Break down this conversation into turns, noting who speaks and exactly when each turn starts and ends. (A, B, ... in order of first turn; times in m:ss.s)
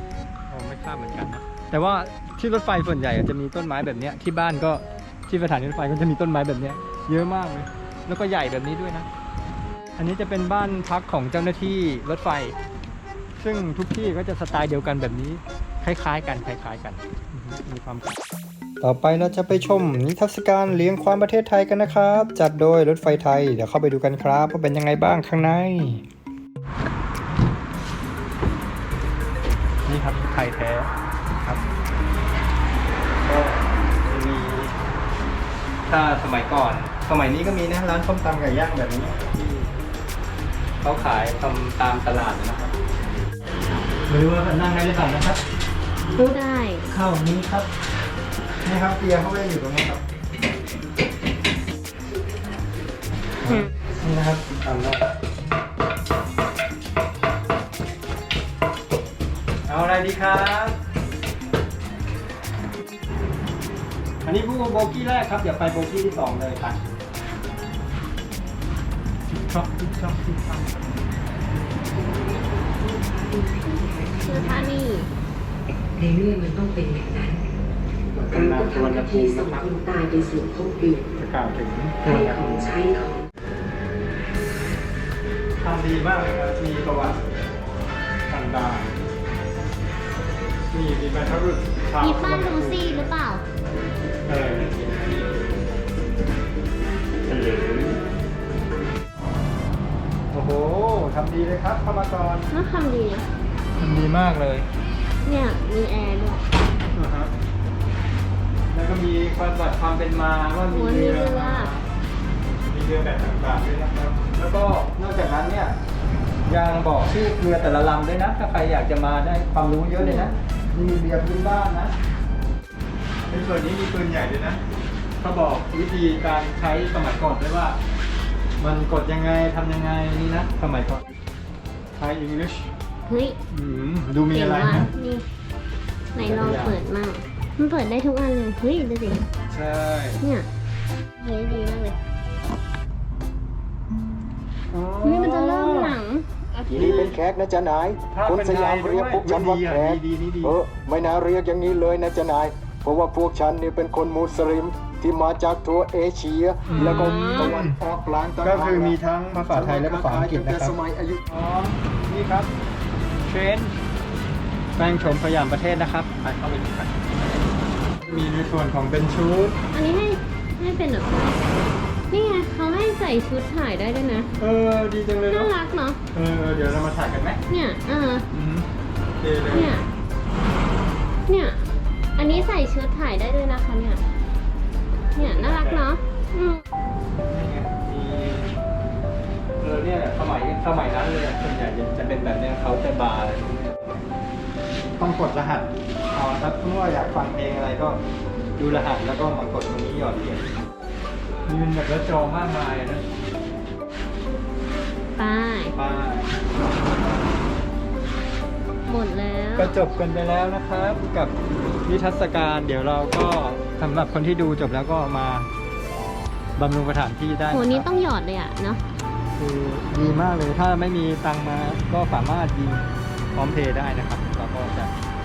0:00.5-0:09.1 A
0:10.0-0:12.6 A
0:13.4-0:18.2 A
0:18.8-0:26.0 A
0:29.9-0:30.9 A
0:33.2-0:34.7 A
0:35.9-0:39.7 A
0:40.8-0:42.7 A
0:44.1-0:45.4 A
0:46.2-0:46.9 B
0:46.9-0:47.7 A
0:48.6-0:50.0 A
0:53.4-0:55.0 A
0:59.7-1:00.8 A
1:04.2-1:06.8 A
1:09.3-1:10.8 A
1:12.0-1:14.6 C
1:14.2-1:15.1 B
1:16.0-1:17.4 C
1:18.1-1:19.7 A
1:18.3-1:21.0 C
1:21.2-1:22.7 A
1:22.0-1:23.2 C
1:25.6-1:27.2 A
1:28.3-1:28.9 A
1:30.7-1:33.1 A
1:32.0-1:33.4 B
1:34.3-1:35.2 A
1:37.3-1:38.0 A
1:40.3-1:42.5 A
1:42.5-1:43.3 B
1:43.8-1:44.7 A
1:45.2-1:46.4 B
1:46.9-1:47.3 A
1:48.7-1:51.8 A
1:50.7-1:51.7 B
1:52.7-1:55.8 A
1:56.5-2:02.0 A
2:00.0-2:00.4 B
2:03.3-2:04.6 A
2:05.2-2:07.8 A
2:08.6-2:11.0 A
2:11.9-2:12.7 A
2:13.1-2:13.4 B
2:13.5-2:14.9 A
2:14.3-2:15.2 B
2:16.2-2:19.2 B
2:16.2-2:16.8 A
2:19.5-2:20.2 A
2:20.2-2:20.5 B
2:21.2-2:22.0 B
2:24.7-2:26.0 A
2:25.0-2:26.8 B
2:26.7-2:27.2 A
2:26.7-2:39.0 D
2:28.1-2:30.6 A
2:36.7-2:37.8 A
2:36.8-2:37.6 B
2:38.4-2:40.7 A
2:39.5-2:41.2 D
2:41.3-2:42.5 A
2:43.3-2:43.8 A
2:44.8-2:46.9 A
2:48.1-2:49.6 A
2:49.7-2:51.3 B
2:52.1-2:54.3 B
2:54.4-2:55.5 A
2:55.3-2:56.0 B
2:56.1-2:57.4 A
2:57.5-2:58.3 B
2:58.3-2:58.7 A
2:59.2-2:59.8 A
2:59.5-2:59.9 B
3:01.3-3:01.6 B
3:02.2-3:04.0 B
3:05.2-3:06.6 B
3:05.2-3:05.9 A
3:07.3-3:08.5 A
3:09.6-3:14.0 A
3:15.0-3:18.0 A
3:18.6-3:20.4 A
3:21.5-3:23.0 A
3:25.2-3:25.8 B
3:25.7-3:26.3 A
3:28.9-3:29.8 B
3:29.6-3:31.3 A
3:31.8-3:35.5 A
3:36.6-3:37.9 A
3:37.5-3:38.8 B
3:39.4-3:44.9 A